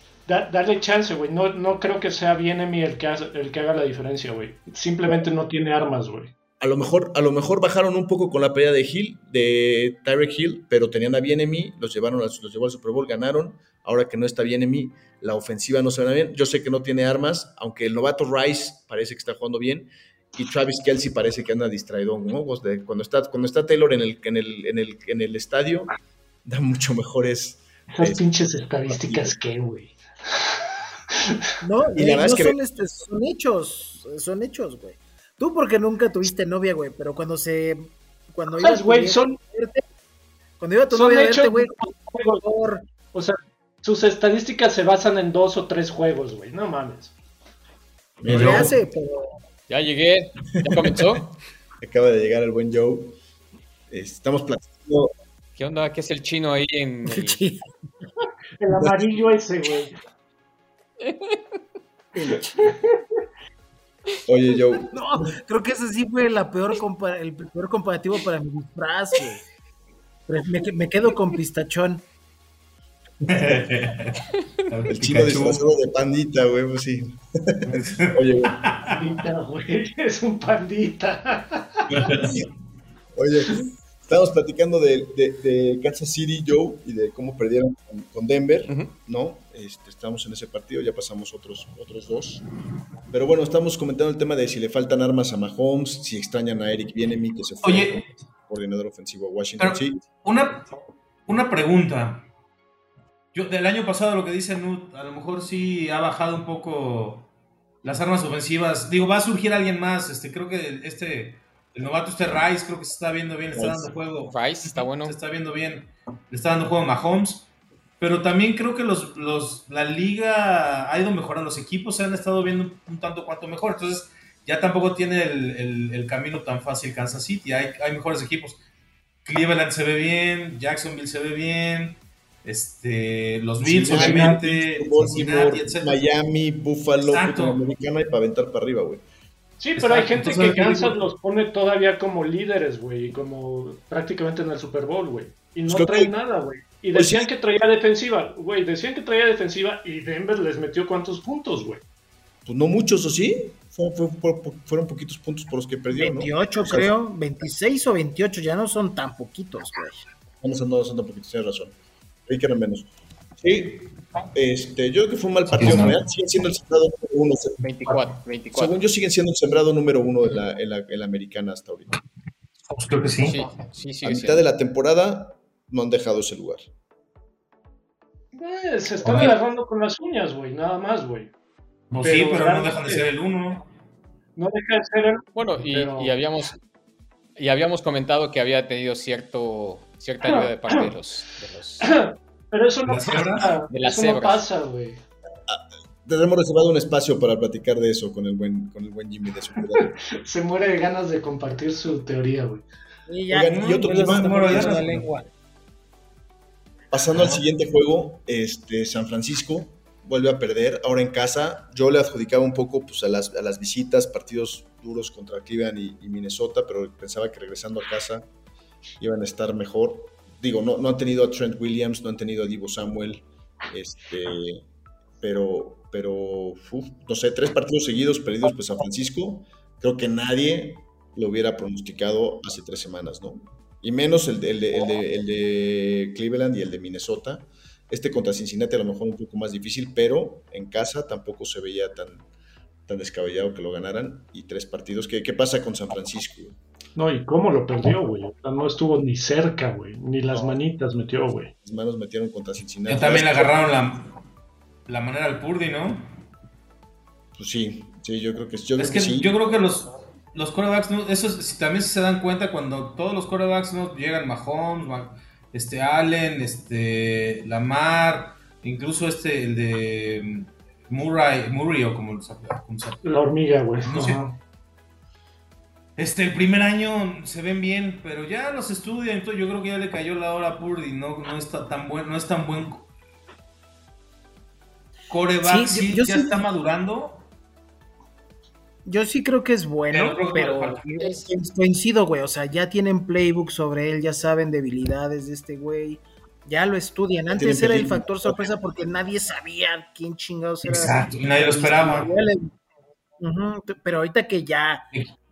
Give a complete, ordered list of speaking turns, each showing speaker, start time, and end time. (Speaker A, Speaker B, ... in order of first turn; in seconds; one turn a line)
Speaker A: 0.2-6.3
Speaker B: 6.6-25.9
Speaker B: 26.4-29.4
Speaker A: 27.9-30.5
Speaker C: 31.6-39.8
Speaker B: 31.9-32.6
Speaker A: 38.5-39.4
Speaker C: 40.6-42.9
Speaker A: 40.9-42.4
Speaker A: 43.1-47.1
Speaker B: 48.2-48.8
Speaker D: 48.3-48.7
Speaker C: 48.3-49.4
Speaker E: 49.7-51.3
Speaker B: 50.5-51.3
Speaker B: 51.8-53.2
Speaker B: 53.9-55.1
Speaker E: 55.6-57.4
Speaker C: 57.1-57.7
Speaker A: 58.6-59.9
Speaker E: 61.0-61.4
Speaker C: 62.1-62.7
Speaker A: 62.6-62.9
Speaker B: 64.3-65.2
Speaker C: 64.9-69.4
Speaker C: 70.3-72.0
Speaker D: 73.2-75.7
Speaker B: 73.3-73.5
Speaker B: 74.9-79.0
Speaker D: 77.7-78.9
Speaker A: 78.8-81.8
Speaker D: 81.9-82.3
Speaker B: 83.1-92.4
Speaker B: 93.1-100.0
Speaker D: 97.6-98.1
Speaker D: 99.6-100.6
Speaker D: 101.3-102.3
Speaker D: 103.3-107.3
Speaker D: 107.8-128.6
Speaker B: 113.5-113.9
Speaker E: 114.3-115.2
Speaker D: 129.2-136.0
Speaker B: 133.6-139.0
Speaker A: 134.0-134.3
Speaker D: 137.0-137.6
Speaker A: 139.6-151.8
Speaker D: 139.8-141.0
Speaker B: 145.7-146.1
Speaker B: 146.9-147.3
Speaker B: 152.4-156.9
Speaker C: 155.9-160.0
Speaker B: 160.4-161.7
Speaker B: 162.3-167.6
Speaker D: 165.5-166.0
Speaker E: 167.6-168.7
Speaker D: 167.8-168.2
Speaker B: 168.5-171.9
Speaker D: 172.7-173.4
Speaker E: 173.2-174.4
Speaker B: 174.0-176.7
Speaker A: 178.3-181.3
Speaker D: 179.0-179.3
Speaker D: 181.9-183.6
Speaker A: 182.0-183.1
Speaker A: 184.3-186.1
Speaker E: 185.3-186.6
Speaker E: 187.4-192.0
Speaker A: 190.2-190.9
Speaker A: 191.8-195.0
Speaker D: 192.8-193.5
Speaker E: 193.7-194.4
Speaker B: 195.5-199.9
Speaker A: 200.1-202.6
Speaker C: 203.1-205.3
Speaker B: 203.3-204.9
Speaker D: 203.5-205.1
Speaker B: 206.9-218.3
Speaker D: 207.1-207.4
Speaker B: 219.0-224.6
Speaker B: 225.2-242.2
Speaker B: 242.9-246.6
Speaker A: 246.9-251.5
Speaker B: 251.6-253.5
Speaker D: 252.8-254.1
Speaker D: 254.9-256.1
Speaker B: 257.4-259.4
Speaker D: 258.8-273.0
Speaker A: 273.0-274.3
Speaker D: 273.8-274.3
Speaker D: 276.0-282.9
Speaker D: 285.1-287.2
Speaker C: 285.4-286.4
Speaker C: 288.8-302.5
Speaker D: 289.9-290.9
Speaker E: 291.0-291.3
Speaker B: 297.3-298.5
Speaker D: 300.6-302.1
Speaker C: 303.2-304.9